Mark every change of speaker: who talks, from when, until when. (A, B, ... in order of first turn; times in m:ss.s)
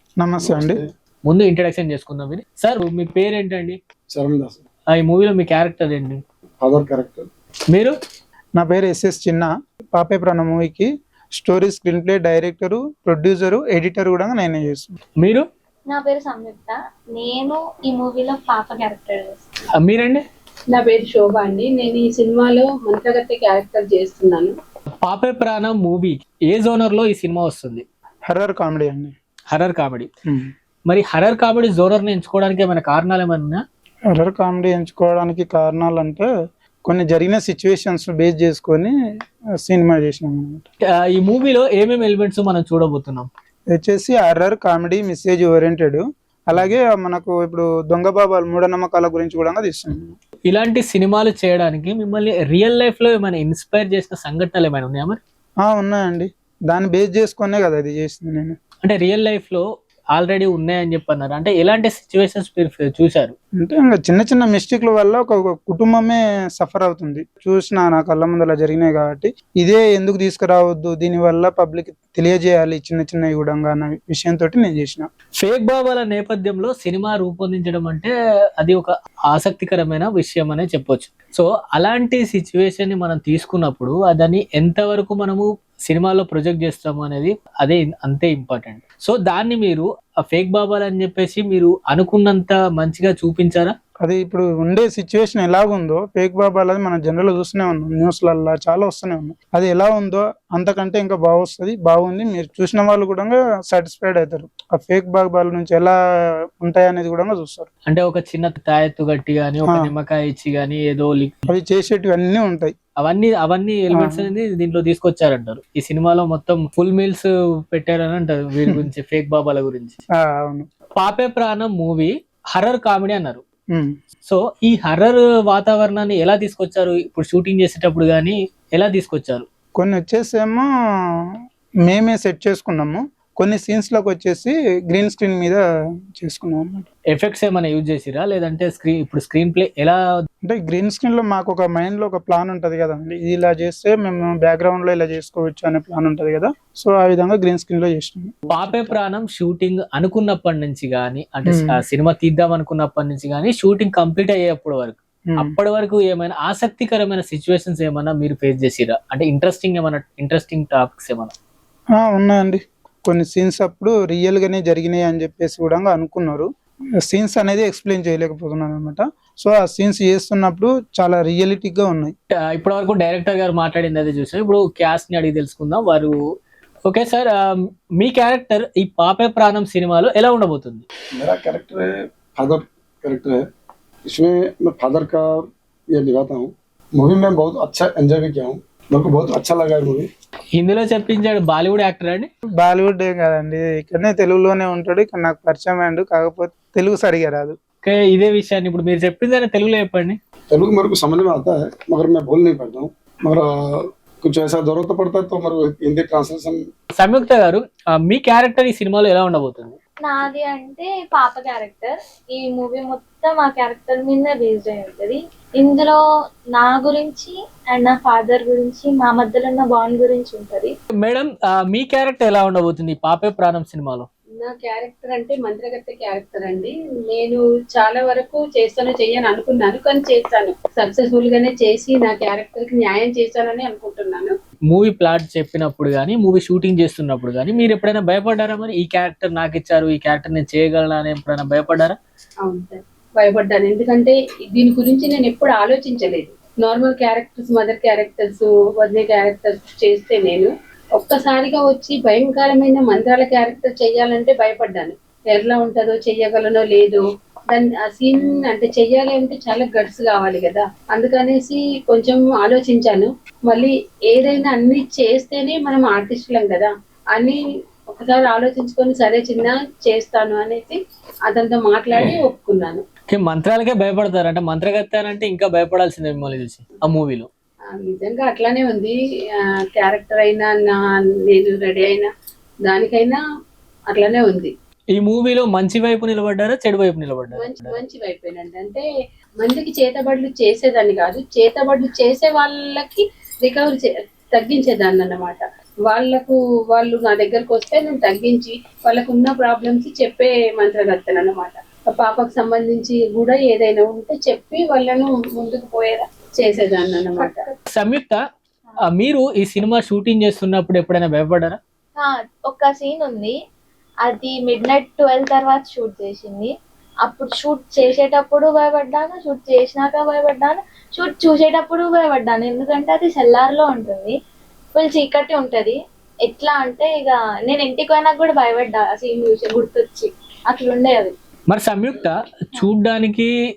0:00.2-0:00.8 A
0:00.4-0:00.9 B
0:01.2-0:03.8 C
0:04.1-0:04.6 B
0:04.9-0:06.2 C
0:06.6-0:07.3 B
0:08.6-0:14.9 A
0:15.2-0:15.4 C
0:15.9-0:19.4 D
0:19.8-0:20.2 C
0:20.7-0:24.5 E
0:25.0-0:27.8 C
0:28.3-0:29.1 A
0:29.5-0:30.1 C
0:30.9-0:33.6 C
0:34.1-0:36.3 A
0:36.9-0:38.9 A
0:39.6-0:40.6 A
0:40.9-0:43.3 C
0:43.7-0:50.1 A
0:50.4-0:55.2 C
0:55.6-0:58.6 A
0:58.8-1:03.4 C
1:03.6-1:15.1 A
1:15.4-1:33.7 C
1:34.0-1:45.9 A
1:46.6-1:47.7 A
1:47.9-1:51.4 C
1:49.6-1:49.9 A
1:51.5-1:52.7 A
1:53.0-2:00.0 C
1:53.9-1:54.2 A
2:00.2-2:00.7 A
2:01.0-2:03.4 C
2:04.2-2:09.4 C
2:09.8-2:10.6 A
2:11.9-2:15.6 A
2:16.2-2:16.9 A
2:17.1-2:20.0 C
2:20.4-2:29.0 A
2:28.5-2:41.3 C
2:31.4-2:31.8 A
2:35.3-2:35.5 A
2:42.0-2:46.5 A
2:47.1-2:52.1 A
2:52.5-2:56.1 C
2:56.9-3:00.8 C
3:01.2-3:03.4 B
3:04.1-3:10.1 B
3:10.6-3:12.3 C
3:12.6-3:17.6 A
3:17.8-3:20.2 C
3:20.5-3:26.6 B
3:27.0-3:29.8 C
3:30.0-3:36.0 D
3:36.5-3:40.7 D
3:41.0-3:44.1 C
3:44.4-3:54.3 E
3:54.7-4:02.0 C
4:02.4-4:27.4 E
4:27.9-4:32.8 E
4:33.1-4:37.3 C
4:37.7-4:42.1 E
4:42.6-4:43.2 E
4:43.9-4:44.5 E
4:44.9-4:47.8 C
4:47.4-4:48.8 E
4:49.4-5:07.5 E
5:07.2-5:07.6 D
5:07.7-5:08.2 C
5:08.9-5:11.6 C
5:12.0-5:13.4 D
5:14.0-5:16.5 D
5:17.0-5:24.2 D
5:24.7-5:31.1 D
5:31.5-5:33.3 C